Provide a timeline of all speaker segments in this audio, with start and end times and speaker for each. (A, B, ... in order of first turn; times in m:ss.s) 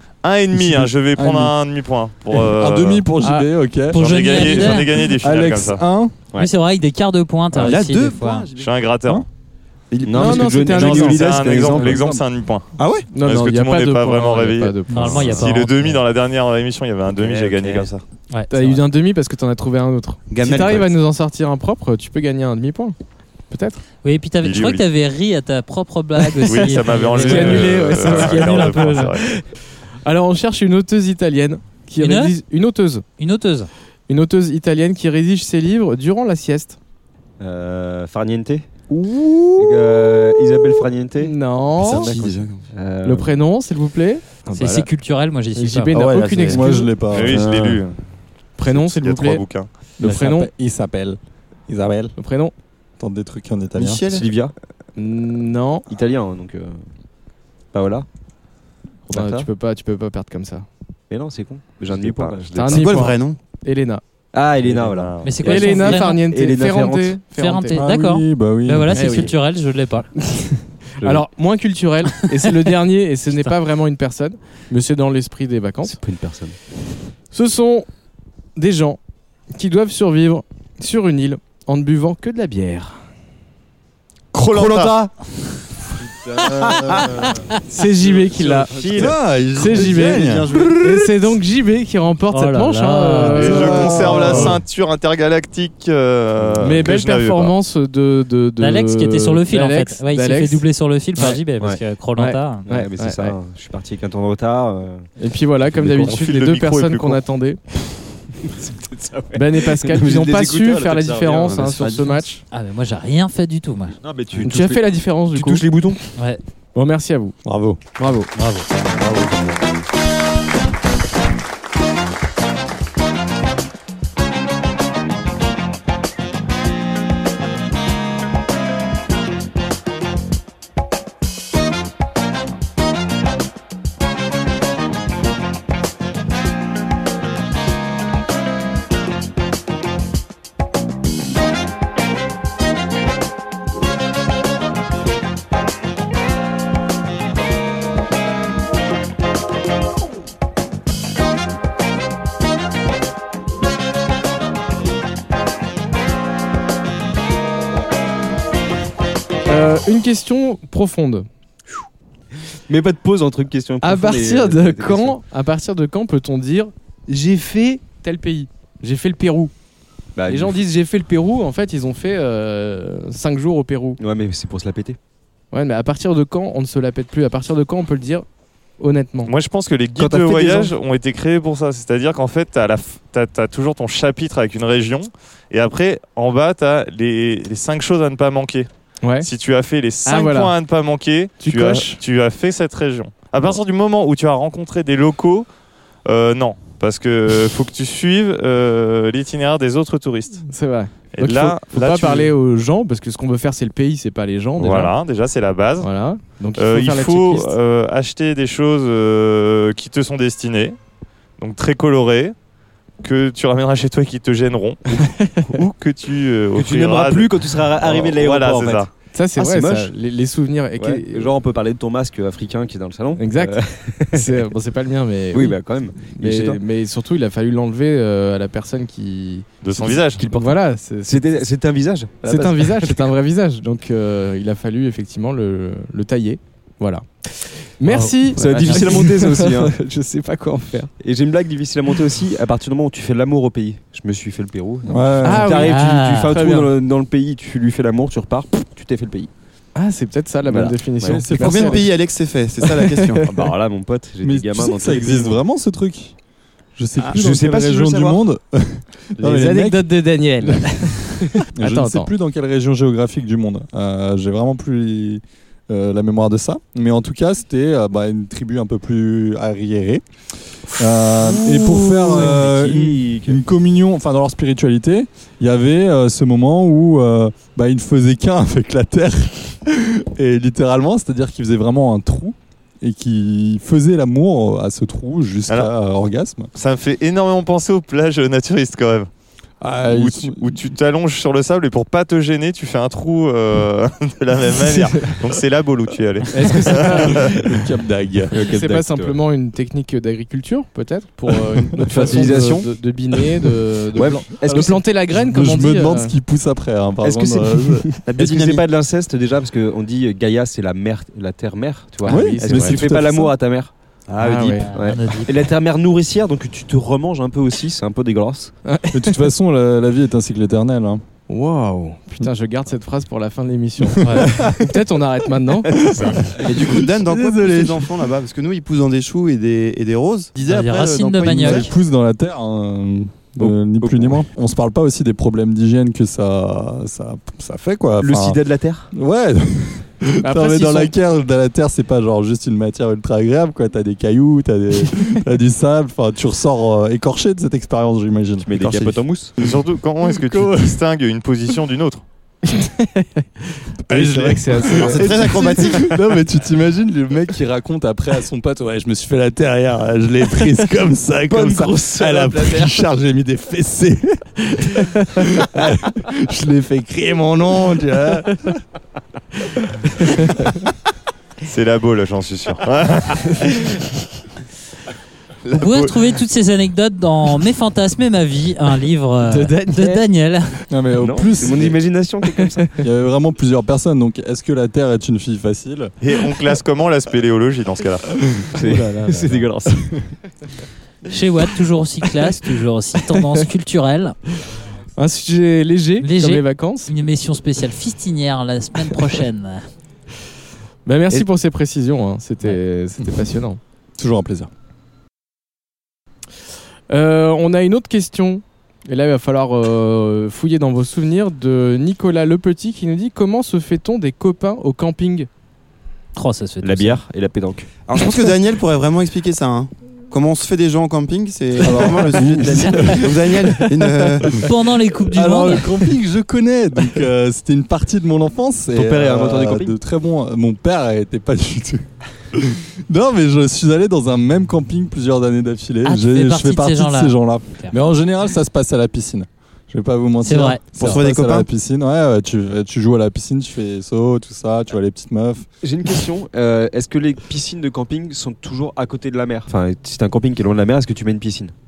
0:00.2-0:03.1 A
0:00.5-0:01.5 B
0:02.3-0:06.2 B
0:03.2-0:03.5 C
0:03.9-0:05.0 D
0:03.9-0:05.8 A
0:06.4-0:08.5 D
0:07.5-0:08.7 E
0:08.5-0:09.2 A
0:09.9-0:10.6 E
0:10.0-0:12.0 F
0:10.1-0:11.2 C
0:10.7-0:12.7 A
0:10.8-0:12.2 B
0:12.8-0:13.1 E
0:13.1-0:15.5 C
0:13.2-0:18.0 A
0:14.9-0:15.9 D
0:17.1-0:17.9 F
0:18.3-0:18.8 D
0:18.5-0:23.0 C
0:20.3-0:20.9 E
0:23.5-0:23.8 C
0:24.0-0:29.2 D
0:24.4-0:24.8 A
0:26.2-0:29.2 C
0:26.4-0:29.3 A
0:30.0-0:33.0 C
0:32.0-0:32.3 D
0:33.2-0:33.7 D
0:34.1-0:36.8 C
0:37.4-0:38.9 F
0:39.6-0:41.4 F
0:41.2-0:42.1 C
0:41.8-0:42.7 E
0:41.9-0:43.4 F
0:43.0-0:44.9 C
0:44.6-0:45.9 D
0:45.5-0:46.9 C
0:45.9-0:47.4 B
0:46.2-0:46.6 E
0:47.1-0:48.0 A
0:47.2-0:47.8 F
0:48.6-0:49.4 C
0:48.6-0:49.7 A
0:50.0-0:50.5 C
0:50.0-0:52.1 B
0:52.2-0:52.5 C
0:53.0-0:54.0 B
0:53.8-0:54.3 E
0:54.0-0:54.5 F
0:55.0-0:55.9 C
0:55.9-0:56.8 F
0:57.7-0:58.1 F
0:59.1-0:59.5 F
0:59.1-1:00.7 C
1:01.1-1:03.2 F
1:02.5-1:04.0 C
1:02.7-1:03.4 E
1:04.3-1:07.3 F
1:04.6-1:05.6 A
1:05.2-1:06.3 D
1:05.4-1:07.8 C
1:07.3-1:10.2 D
1:07.7-1:09.3 B
1:08.9-1:09.3 C
1:10.4-1:16.0 C
1:11.0-1:11.3 F
1:15.9-1:16.6 F
1:17.3-1:17.9 C
1:18.6-1:19.0 C
1:19.5-1:23.0 C
1:24.3-1:25.0 A
1:24.3-1:25.1 B
1:26.6-1:27.1 B
1:27.6-1:34.5 C
1:28.0-1:30.5 A
1:28.8-1:29.1 F
1:28.9-1:31.3 B
1:32.3-1:34.1 D
1:33.4-1:37.5 A
1:33.4-1:34.6 B
1:36.4-1:36.8 F
1:36.6-1:41.4 C
1:38.6-1:42.7 D
1:41.6-1:41.8 F
1:42.2-1:43.4 C
1:42.7-1:45.1 F
1:45.2-1:47.6 C
1:45.8-1:46.1 F
1:45.9-1:47.2 A
1:48.5-1:52.2 F
1:49.3-1:52.4 C
1:52.5-1:54.0 D
1:54.0-1:56.1 F
1:54.4-1:55.6 C
1:56.8-1:57.4 C
1:57.4-1:57.8 B
1:58.0-1:58.3 C
1:58.4-1:58.7 D
1:59.0-1:59.3 B
2:39.5-2:41.3 C
2:42.7-2:45.2 F
2:43.8-2:49.5 C
2:50.2-2:50.6 F
2:50.3-2:54.0 C
2:54.0-2:55.0 F
2:55.5-2:58.2 C
2:58.8-2:59.3 C
2:59.3-3:08.7 A
3:00.0-3:00.7 F
3:09.0-3:09.3 C
3:09.2-3:15.5 A
3:10.0-3:10.6 C
3:11.4-3:12.0 C
3:16.0-3:20.5 A
3:20.5-3:24.9 C
3:21.2-3:22.3 A
3:24.6-3:25.9 A
3:25.8-3:27.5 C
3:26.6-3:30.8 A
3:31.4-3:32.4 A
3:33.0-3:38.9 A
3:35.0-3:35.5 C
3:36.6-3:39.9 F
3:39.1-3:41.3 C
3:40.8-3:44.4 F
3:43.2-3:43.6 C
3:44.1-3:49.5 C
3:45.3-3:46.6 F
3:49.6-3:50.2 A
3:49.8-3:53.1 F
3:50.3-3:51.3 C
3:52.2-4:00.9 C
3:57.9-3:59.0 D
3:58.3-3:59.7 F
4:01.0-4:09.3 F
4:04.9-4:05.6 B
4:05.2-4:06.7 C
4:05.6-4:06.4 D
4:09.8-4:11.9 C
4:10.4-4:11.3 F
4:11.0-4:11.9 B
4:11.3-4:13.3 E
4:12.6-4:13.4 C
4:13.3-4:15.4 F
4:14.2-4:16.2 B
4:16.8-4:19.9 B
4:17.0-4:18.2 F
4:19.2-4:22.1 C
4:20.4-4:20.8 B
4:21.5-4:30.0 B
4:30.7-4:46.5 B
4:31.4-4:33.4 F
4:46.5-4:49.1 A
4:49.6-4:50.7 B
4:49.9-4:57.3 A
4:56.3-4:57.5 C
4:57.0-4:58.4 B
4:58.3-4:59.2 F
4:58.3-5:06.1 C
5:01.9-5:02.7 F
5:03.9-5:04.8 F
5:05.2-5:07.9 B
5:07.0-5:18.5 F
5:08.1-5:08.6 E
5:12.0-5:12.8 C
5:12.1-5:13.3 B
5:14.2-5:14.7 C
5:14.5-5:15.5 D
5:18.6-5:19.2 C
5:18.9-5:21.0 B
5:21.3-5:25.8 C
5:24.0-5:24.4 D
5:24.2-5:24.5 B
5:25.7-5:27.9 B
5:26.4-5:31.7 E
5:30.4-5:31.7 D
5:31.2-5:38.4 B
5:33.4-5:34.2 F
5:38.0-5:38.9 F
5:38.9-5:48.5 B
5:40.2-5:40.9 C
5:48.4-5:49.3 F
5:48.6-5:49.0 E
5:49.4-5:52.0 A
5:49.4-5:50.8 B
5:52.5-5:55.1 C
5:53.9-6:08.6 B
5:54.9-5:55.9 E
6:01.3-6:02.7 F
6:10.0-6:10.3 C
6:11.4-6:13.9 A
6:15.5-6:20.6 D
6:19.2-6:20.0 C
6:20.7-6:21.8 B
6:21.0-6:22.8 F
6:22.8-6:25.9 B
6:26.0-6:28.1 A
6:28.5-6:30.1 F
6:28.5-6:29.7 C
6:31.1-6:34.2 D
6:35.0-6:36.9 C
6:36.0-6:39.6 D
6:40.9-6:43.6 C
6:44.0-6:44.5 B
6:46.9-6:55.3 C
6:56.2-6:57.0 D
6:56.6-6:57.7 F
6:57.9-7:04.5 E
7:01.6-7:03.3 B
7:01.7-7:03.0 C
7:04.4-7:05.7 D
7:05.1-7:25.5 B
7:08.7-7:09.7 F
7:15.8-7:17.7 D
7:20.2-7:21.0 D
7:20.8-7:21.5 E
7:25.6-7:31.5 F